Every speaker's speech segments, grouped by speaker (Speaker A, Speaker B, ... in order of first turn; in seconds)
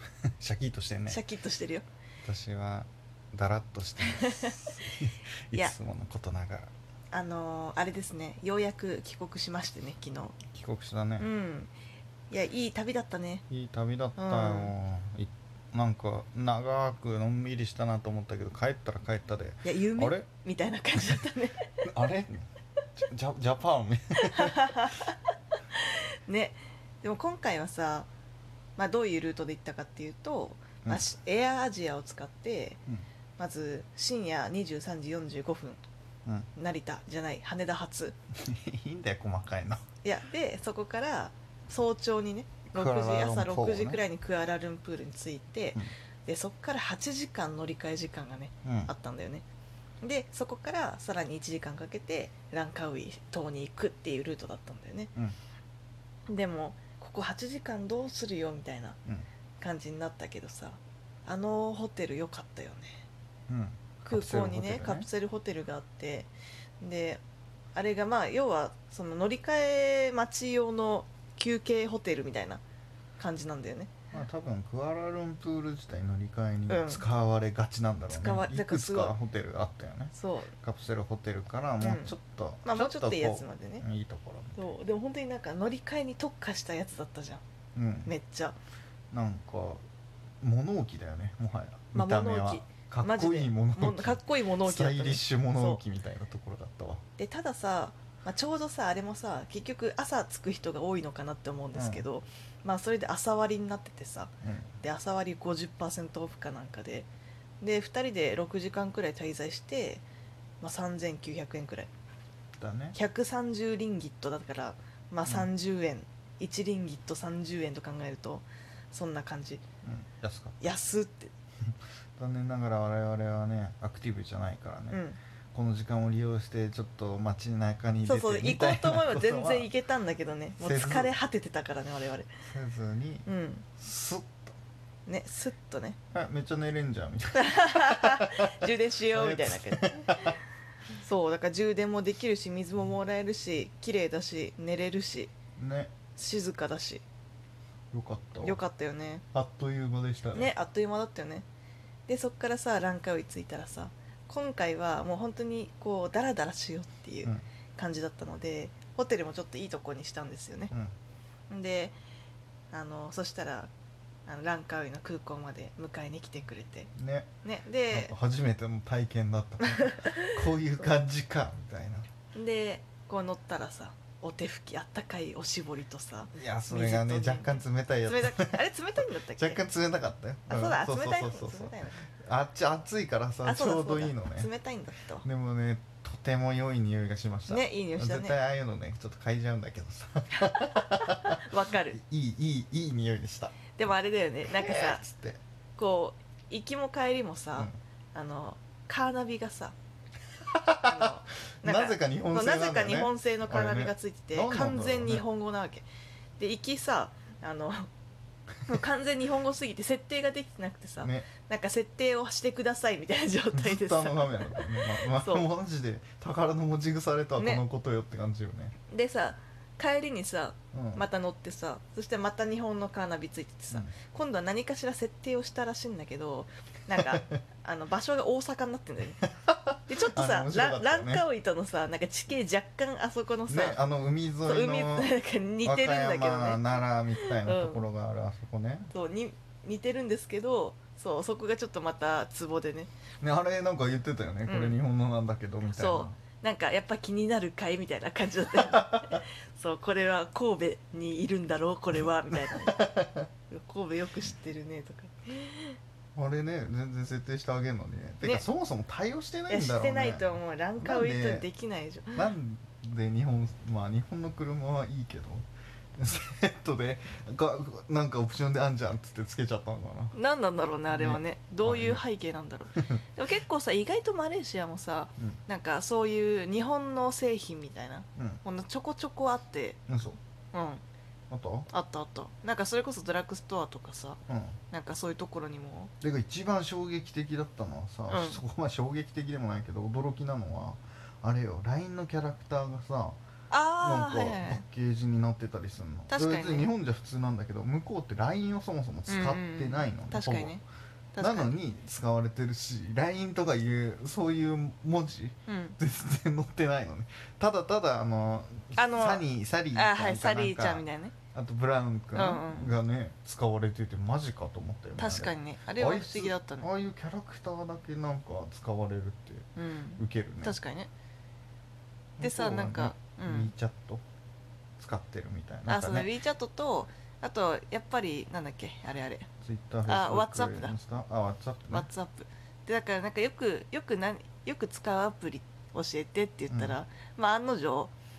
Speaker A: 0.2-1.2, 2.2-6.7, 10.5-11.3, 13.5-20.3, 21.8-24.9, 38.4-39.8, 42.7-44.0, 48.6-48.9, 63.5-65.1, 74.1-84.6, 87.8-88.1, 89.1-89.8, 90.4-97.0, 101.7-102.0, 104.4-104.8, 112.6-113.0, 119.8-120.6, 121.6-125.0, 125.5-129.7, 130.6-131.1, 132.5-133.3, 133.8-134.5, 136.1-140.4, 145.6-145.9, 147.9-148.6, 149.3-150.5, 167.0-167.3, 167.9-172.1, 176.3-178.6, 179.4-184.5, 185.2-193.7, 194.5-195.4, 200.4-201.1, 201.6-205.2, 211.0-211.3, 213.5-218.8, 220.7-221.1, 229.2-231.3, 233.5-235.1, 235.6-238.9, 243.2-246.1, 248.6-249.2, 252.5-253.3, 256.1-261.5, 262.1-270.1, 270.9-272.0, 279.9-280.2, 281.3-281.7, 284.3-284.6, 286.0-293.2, 293.8-300.6, 301.2-320.6, 322.2-324.0, 324.8-326.1, 329.4-331.9, 336.5-336.8
Speaker B: 1.1-1.9, 4.0-5.0, 7.1-10.4, 11.2-11.7, 12.3-13.4, 14.2-14.7, 19.6-21.7, 24.2-25.2, 25.7-28.1, 28.8-32.8, 33.4-35.8, 36.5-38.2, 40.0-49.5, 50.0-55.1, 56.3-59.0, 59.6-63.0, 64.0-67.2, 67.8-72.6, 73.2-74.0, 76.7-77.0, 78.1-79.2, 80.1-80.5, 81.8-83.8, 84.6-87.4, 88.1-88.6, 91.9-95.8, 97.2-107.1, 107.6-110.0, 110.6-111.9, 112.9-119.6, 120.6-121.3, 124.9-125.2, 128.1-132.3, 133.3-133.7, 135.1-136.0, 137.3-140.4, 140.9-145.3, 146.1-147.0, 148.4-149.2, 150.3-151.5, 152.1-160.7, 161.5-162.0, 162.7-163.7, 164.3-166.9, 167.4-168.2, 169.6-170.4, 172.3-179.6, 180.5-182.0, 183.4-185.2, 187.5-188.4, 190.4-192.0, 193.8-195.0, 195.8-199.8, 200.8-205.8, 206.4-207.9, 208.7-215.5, 217.4-217.6, 218.9-229.2, 229.9-233.8, 234.4-237.8, 238.9-242.9, 244.5-244.8, 245.7-252.9, 253.5-255.8, 259.5-262.2, 270.1-279.8, 280.5-280.8, 281.7-284.2, 284.7-285.9, 288.1-288.4, 293.5-294.6, 296.1-296.7, 299.1-300.6, 301.1-301.5, 305.5-305.8, 308.8-311.2, 312.1-312.8, 315.0-316.7, 319.6-320.9, 322.2-323.5, 325.7-329.3, 329.9-330.8, 331.7-337.9